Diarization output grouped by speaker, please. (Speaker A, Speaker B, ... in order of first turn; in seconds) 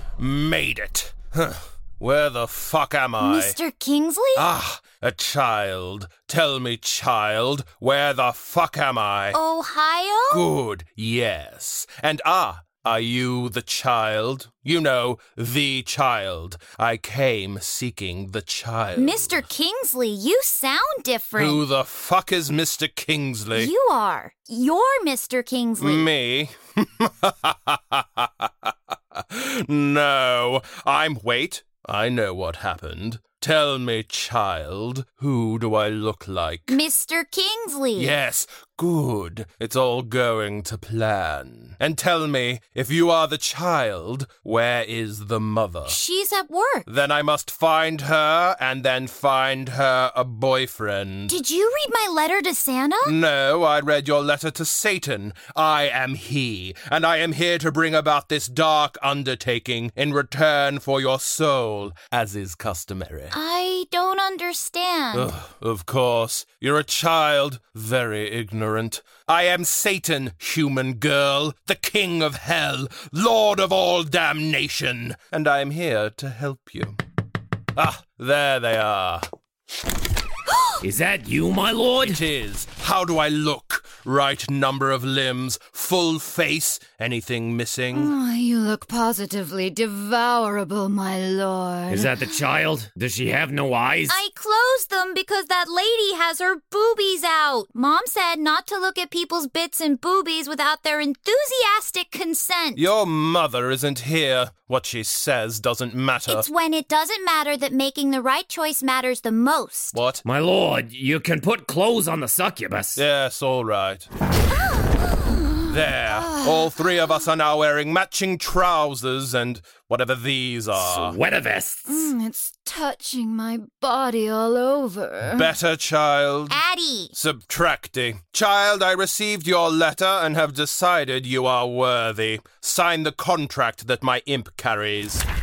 Speaker A: 0.2-3.6, 4.3-9.4, 10.3-19.4, 21.4-23.7, 25.8-36.8, 38.0-46.0, 46.9-51.4, 53.0-63.3, 65.1-77.0, 77.7-79.2, 82.0-88.1, 102.8-106.5, 109.9-110.2, 112.9-114.1, 115.7-121.2, 125.2-126.6, 127.1-135.2
Speaker B: 3.2-4.5, 9.3-10.5, 18.9-21.6, 23.5-26.1, 36.7-38.1, 45.9-46.9, 51.3-53.1, 63.3-65.3, 94.1-102.8, 106.3-110.0, 126.5-127.1
Speaker C: 80.8-82.2, 91.9-94.2, 110.2-113.0, 120.7-122.1
Speaker D: 87.9-92.3, 115.3-116.9, 121.8-125.5